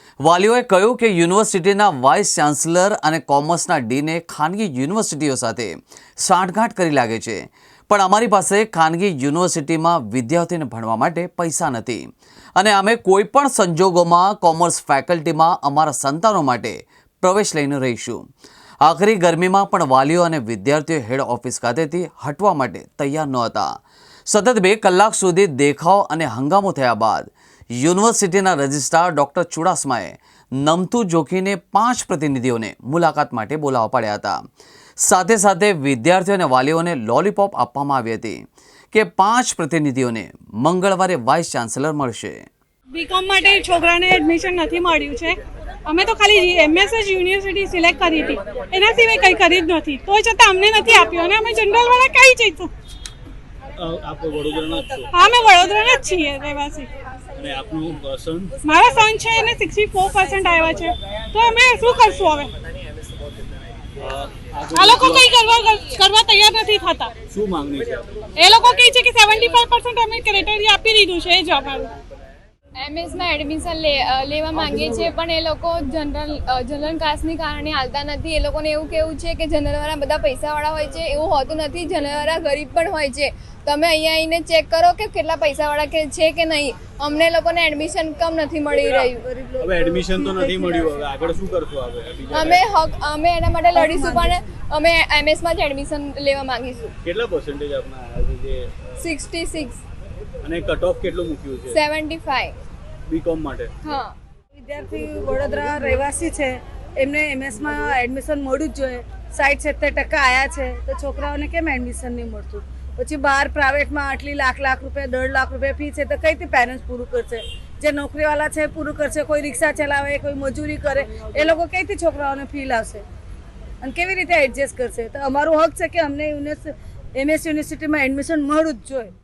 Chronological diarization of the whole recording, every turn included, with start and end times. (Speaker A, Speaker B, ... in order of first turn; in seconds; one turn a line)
Speaker A: 0.2-18.3
Speaker A: 18.8-34.4
Speaker A: 35.0-42.5
Speaker B: 42.9-52.7
Speaker C: 53.8-55.1
Speaker B: 55.1-56.9
Speaker C: 57.4-58.6
Speaker B: 58.6-62.5
Speaker C: 64.0-65.3
Speaker B: 64.7-67.1
Speaker C: 67.3-68.3
Speaker B: 68.3-71.9
Speaker D: 72.8-89.2
Speaker E: 88.7-90.9
Speaker C: 88.7-92.7
Speaker D: 92.3-96.9
Speaker E: 93.7-94.4
Speaker C: 97.0-98.9
Speaker D: 99.0-99.8
Speaker C: 100.4-101.8
Speaker D: 101.7-102.5
Speaker C: 103.1-103.7
Speaker D: 103.8-104.2
Speaker E: 104.6-123.0
Speaker E: 123.8-129.1